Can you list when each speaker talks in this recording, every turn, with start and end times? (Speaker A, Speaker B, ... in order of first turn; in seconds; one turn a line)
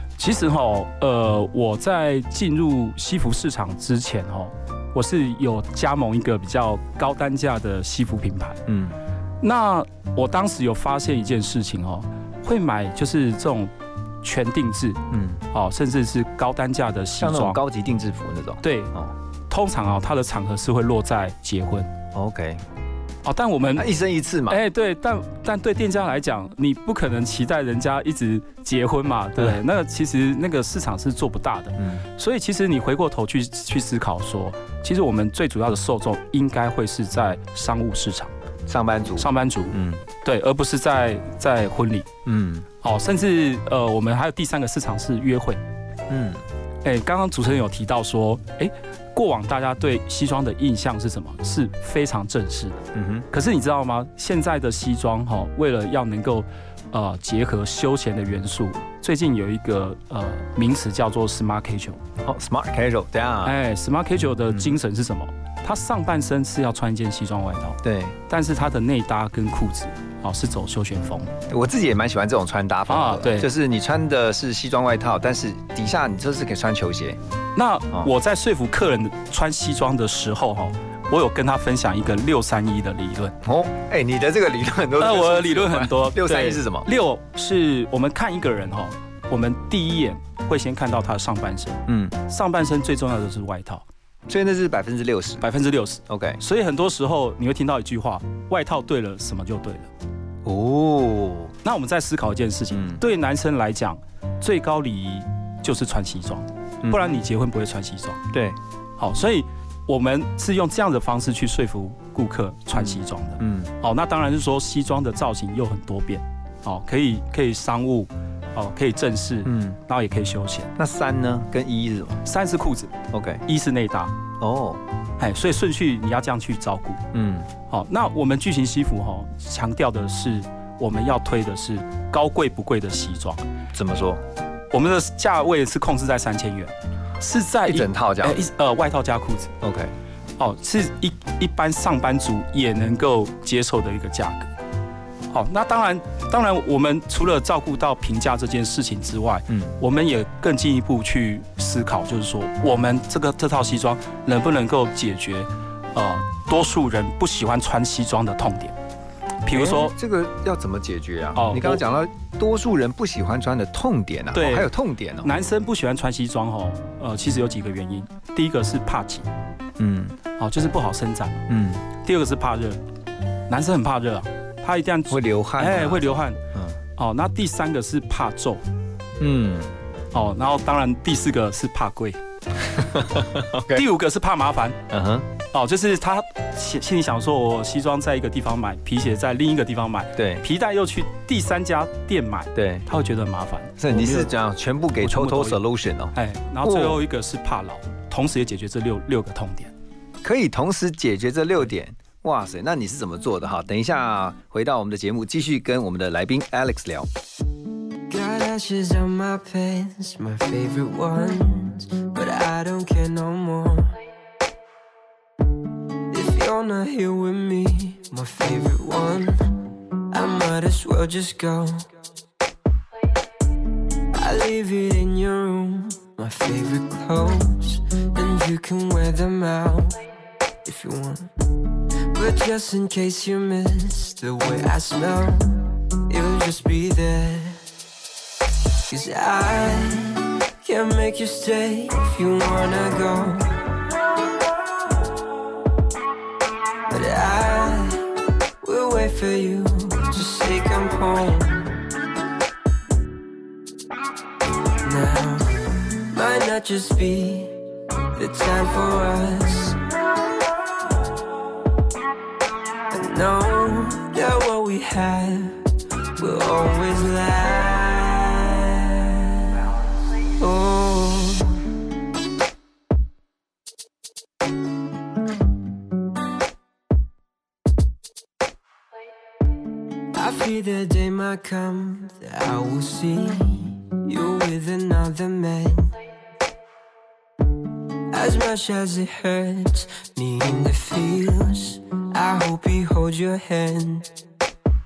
Speaker A: 0.2-8.6
Speaker B: 8.7-9.0
Speaker A: 9.4-13.7
Speaker A: 14.2-15.0
Speaker B: 15.1-15.4
Speaker A: 15.5-17.6
Speaker B: 17.2-19.1
Speaker A: 18.6-18.9
Speaker A: 19.5-21.9
Speaker B: 22.1-22.6
Speaker A: 23.2-23.9
Speaker B: 23.7-24.6
Speaker A: 24.5-38.3
Speaker B: 31.8-32.0
Speaker B: 38.7-40.0
Speaker A: 39.2-42.1
Speaker B: 42.2-42.6
Speaker A: 42.8-45.6
Speaker B: 46.1-46.4
Speaker A: 46.8-62.0
Speaker B: 52.9-53.2
Speaker B: 62.2-63.5
Speaker A: 63.4-67.8
Speaker B: 64.5-64.8
Speaker B: 67.8-68.2
Speaker A: 68.3-71.3
Speaker B: 71.5-77.2
Speaker A: 72.9-73.5
Speaker A: 77.5-83.3
Speaker B: 83.4-86.9
Speaker A: 85.0-93.8
Speaker B: 91.9-92.1
Speaker B: 94.3-95.4
Speaker A: 95.4-99.9
Speaker B: 96.1-96.4
Speaker B: 100.4-101.5
Speaker A: 101.6-108.2
Speaker B: 102.7-103.0
Speaker B: 108.3-108.6
Speaker A: 109.0-120.7
Speaker B: 112.7-113.7
Speaker B: 119.4-119.8
Speaker B: 120.8-122.2
Speaker A: 122.2-122.9
Speaker B: 123.1-123.4
Speaker A: 123.5-124.1
Speaker B: 124.4-124.8
Speaker A: 125.2-127.0
Speaker B: 127.1-127.5
Speaker A: 127.7-133.4
Speaker B: 133.7-134.2
Speaker A: 134.7-139.5
Speaker B: 137.7-138.4
Speaker B: 139.6-139.9
Speaker A: 140.4-144.5
Speaker A: 145.3-158.7
Speaker A: 159.4-159.9
Speaker B: 159.5-165.3
Speaker A: 161.3-161.8
Speaker A: 164.3-164.7
Speaker A: 165.2-169.3
Speaker B: 169.8-170.2
Speaker A: 170.4-171.4
Speaker B: 171.5-171.8
Speaker A: 172.0-172.8
Speaker A: 173.5-176.4
Speaker B: 175.1-176.8
Speaker A: 177.0-178.6
Speaker B: 179.2-179.7
Speaker A: 180.1-182.2
Speaker B: 182.8-183.8
Speaker A: 183.7-184.8
Speaker B: 184.9-185.3
Speaker A: 185.5-194.3
Speaker B: 190.2-190.4
Speaker B: 192.5-192.8
Speaker B: 193.8-197.0
Speaker A: 195.0-195.6
Speaker A: 196.1-199.7
Speaker B: 200.2-207.1
Speaker C: 208.1-214.0
Speaker C: 216.1-219.4
Speaker C: 220.1-221.9
Speaker C: 224.1-230.0
Speaker C: 230.6-231.3
Speaker C: 232.1-237.6
Speaker C: 238.9-243.6
Speaker C: 246.9-248.0
Speaker C: 248.6-251.7
Speaker C: 254.8-255.5
Speaker C: 256.1-257.5
Speaker C: 258.1-259.8
Speaker C: 262.9-265.6
Speaker C: 266.2-269.3
Speaker C: 270.4-271.6
Speaker C: 280.1-285.9
Speaker C: 288.1-294.1